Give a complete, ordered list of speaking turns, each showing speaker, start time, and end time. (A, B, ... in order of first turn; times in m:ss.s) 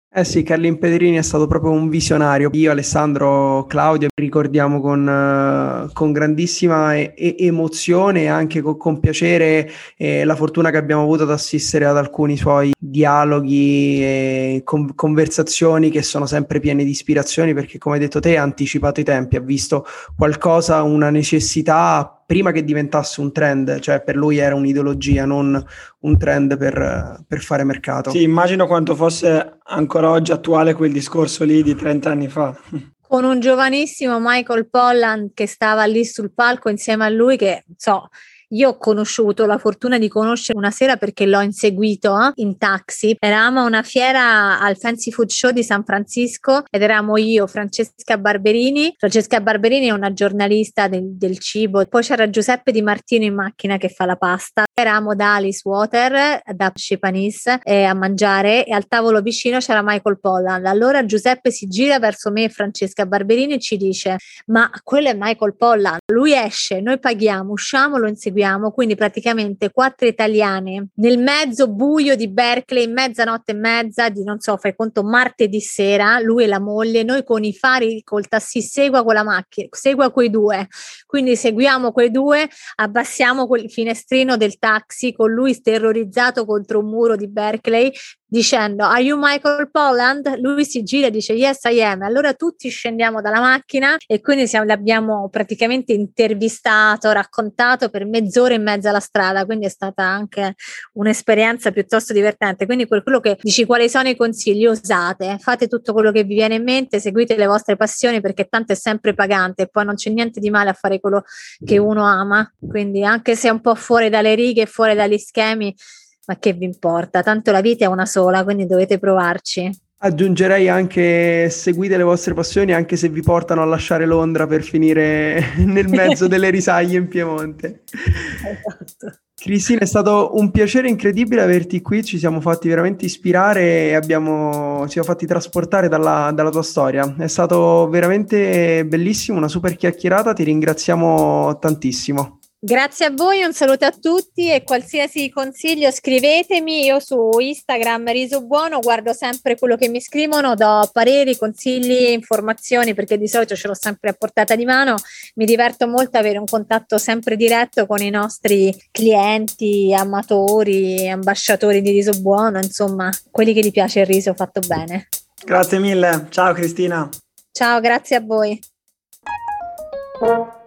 0:00.1-0:28.2 A
0:28.1-0:32.8 B
0:33.1-1:59.8 C
2:00.0-2:08.4 A
2:08.5-2:09.1 C
2:09.4-2:22.4 A
2:22.6-2:45.1 C
2:45.4-2:47.1 B
2:47.5-2:48.6 C